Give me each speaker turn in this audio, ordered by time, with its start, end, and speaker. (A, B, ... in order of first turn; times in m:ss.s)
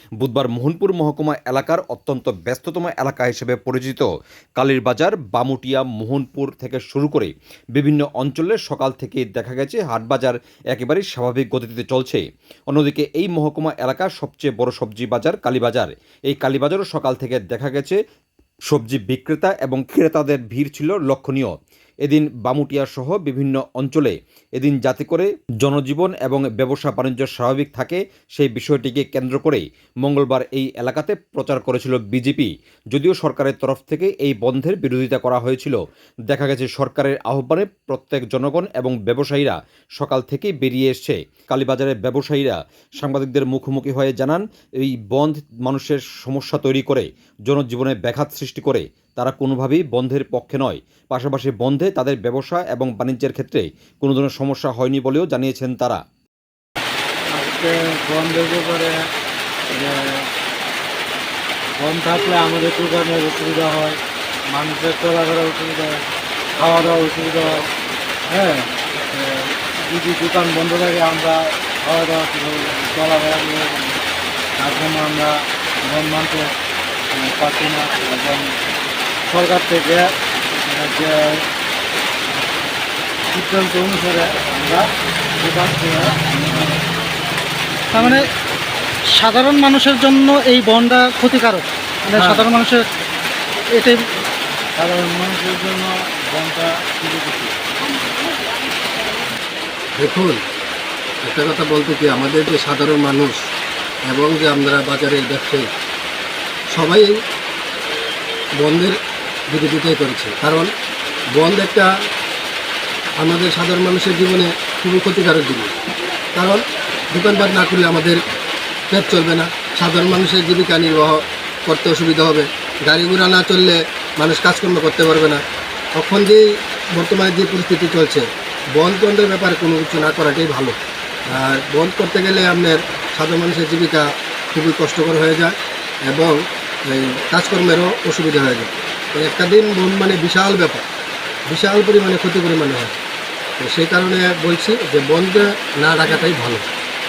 0:00.2-0:04.0 A
0:04.6-0:18.0 A
0:18.7-0:35.8 A
0:36.3-0:56.0 A
0:57.3-0:59.0 B
0:59.7-1:00.2 B
1:01.8-1:06.0 B
1:06.6-1:07.6 B
1:08.3-1:14.0 B
1:14.6-1:16.4 B
1:17.1-1:18.5 B
1:19.3-1:20.0 B
1:20.6-1:21.2 B
1:23.3-1:24.8 B
1:25.4-1:26.8 B
1:27.9-1:28.2 C
1:29.1-1:32.8 C
1:32.2-1:32.5 D
1:34.8-1:37.6 B
1:40.0-1:40.4 D
1:41.2-1:43.4 D
1:44.1-1:45.7 D
1:46.7-1:47.1 D
1:48.6-1:49.0 D
1:49.5-1:50.7 D
1:51.4-1:51.9 D
1:53.2-1:55.7 D
1:56.4-1:58.2 D
1:58.9-2:05.4 D
2:06.0-2:06.4 D
2:07.0-2:08.2 D
2:08.8-2:10.7 D
2:11.3-2:15.5 D
2:16.1-2:16.3 D
2:16.9-2:20.8 D
2:21.5-2:22.9 D
2:23.6-2:26.6 D